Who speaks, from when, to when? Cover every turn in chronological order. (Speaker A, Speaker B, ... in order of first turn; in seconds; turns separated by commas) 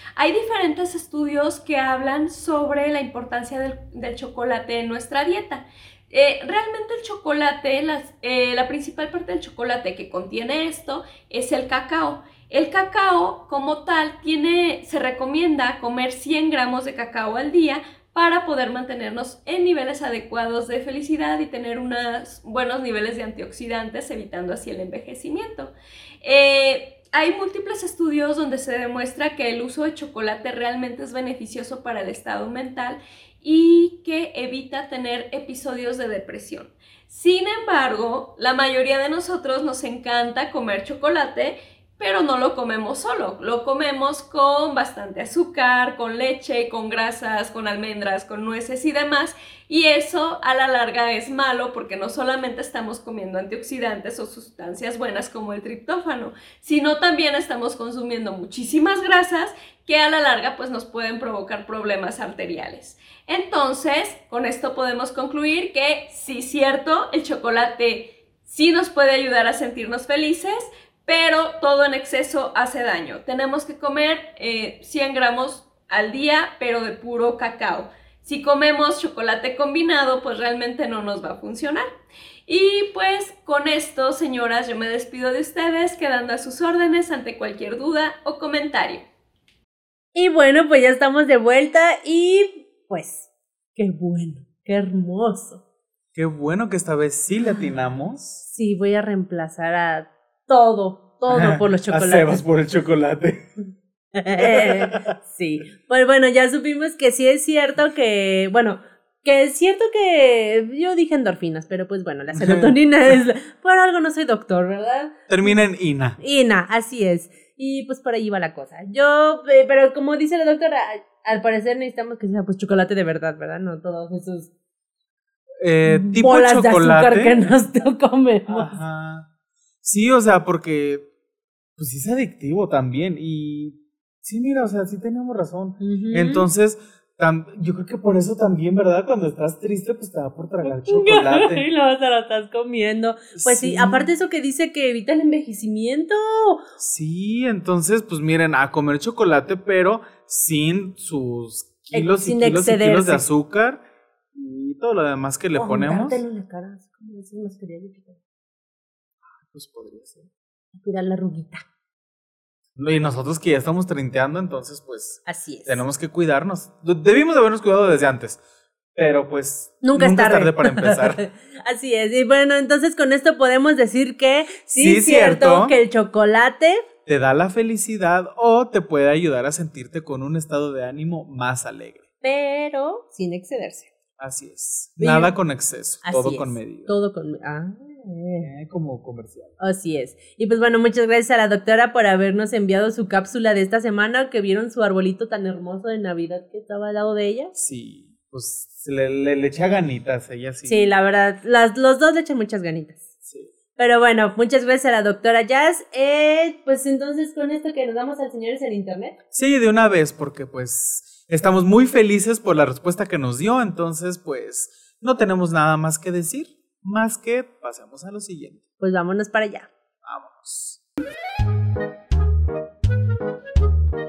Speaker A: 0.2-81.9, Speaker A: 82.5-89.0, Speaker B: 90.2-95.6, Speaker C: 96.2-98.4, Speaker B: 98.5-102.4, Speaker C: 101.3-103.5, Speaker B: 104.2-115.2, Speaker C: 104.4-105.1, Speaker C: 112.3-112.8, Speaker C: 115.3-116.2, Speaker B: 116.2-124.5, Speaker C: 125.6-127.4, Speaker B: 125.9-128.8, Speaker C: 128.5-129.3, Speaker C: 129.8-131.1, Speaker C: 131.8-141.7, Speaker B: 135.8-136.5, Speaker B: 140.7-146.6, Speaker C: 143.4-144.1, Speaker C: 146.8-156.2, Speaker B: 151.9-153.2, Speaker B: 155.6-158.2, Speaker C: 159.3-160.3, Speaker B: 160.7-161.6, Speaker C: 162.8-168.4, Speaker B: 165.3-165.8, Speaker C: 169.0-171.2, Speaker B: 169.8-176.8, Speaker C: 174.8-175.8, Speaker C: 177.1-182.0, Speaker B: 182.2-183.9, Speaker C: 184.2-186.9, Speaker B: 185.0-185.3, Speaker B: 186.1-188.5, Speaker C: 188.4-189.6, Speaker B: 189.6-197.5, Speaker C: 197.6-200.8, Speaker B: 200.7-203.1, Speaker B: 203.8-209.2, Speaker C: 209.3-218.6, Speaker B: 218.8-219.7, Speaker C: 220.0-220.8